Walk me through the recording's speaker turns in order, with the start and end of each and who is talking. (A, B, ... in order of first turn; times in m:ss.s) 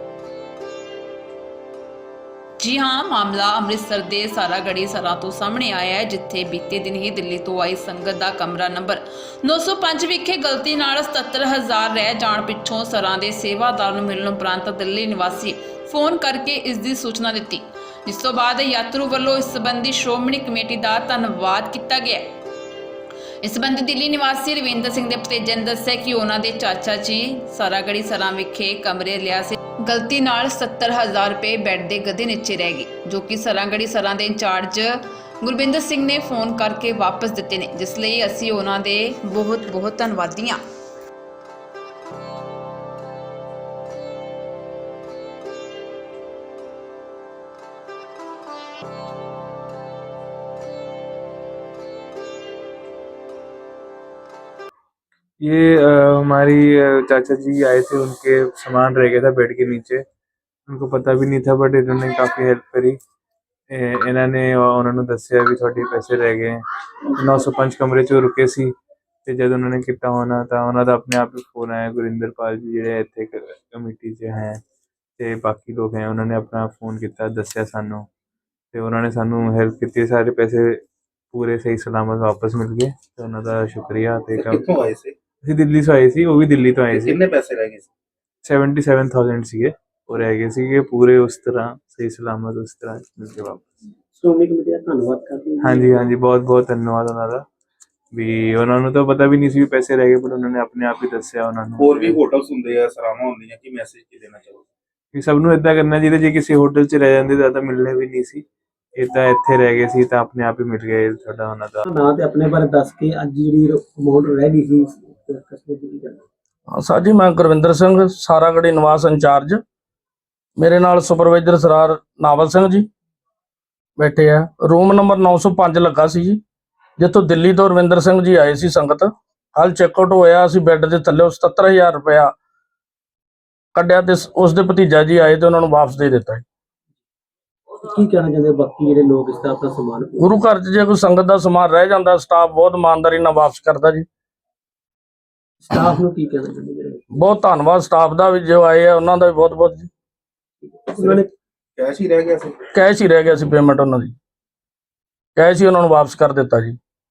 0:02.6-0:22.2 A
0:23.4-0:40.6 A
0:55.4-1:00.0 B
1:00.7-1:03.0 B
1:03.7-1:06.6 B
1:07.2-1:08.7 B
1:09.2-1:14.6 B
1:15.2-1:18.0 B
1:18.7-1:20.8 B
1:21.3-1:27.2 B
1:24.4-1:25.1 C
1:26.9-1:27.9 C
1:28.4-1:33.6 B
1:34.2-1:36.1 D
1:35.6-1:37.4 B
1:38.1-1:42.2 B
1:41.8-1:44.7 C
1:45.1-1:48.4 B
1:49.0-1:51.8 B
1:51.9-1:56.2 D
1:56.7-1:59.6 E
2:00.6-2:02.9 E
2:04.0-2:06.4 E
2:07.0-2:12.3 E
2:13.7-2:16.4 E
2:17.8-2:20.2 D
2:20.2-2:24.0 E
2:25.6-2:27.1 D
2:27.1-2:29.9 E
2:30.6-2:31.3 D
2:31.8-2:32.6 C
2:32.7-2:34.1 E
2:35.4-2:36.8 E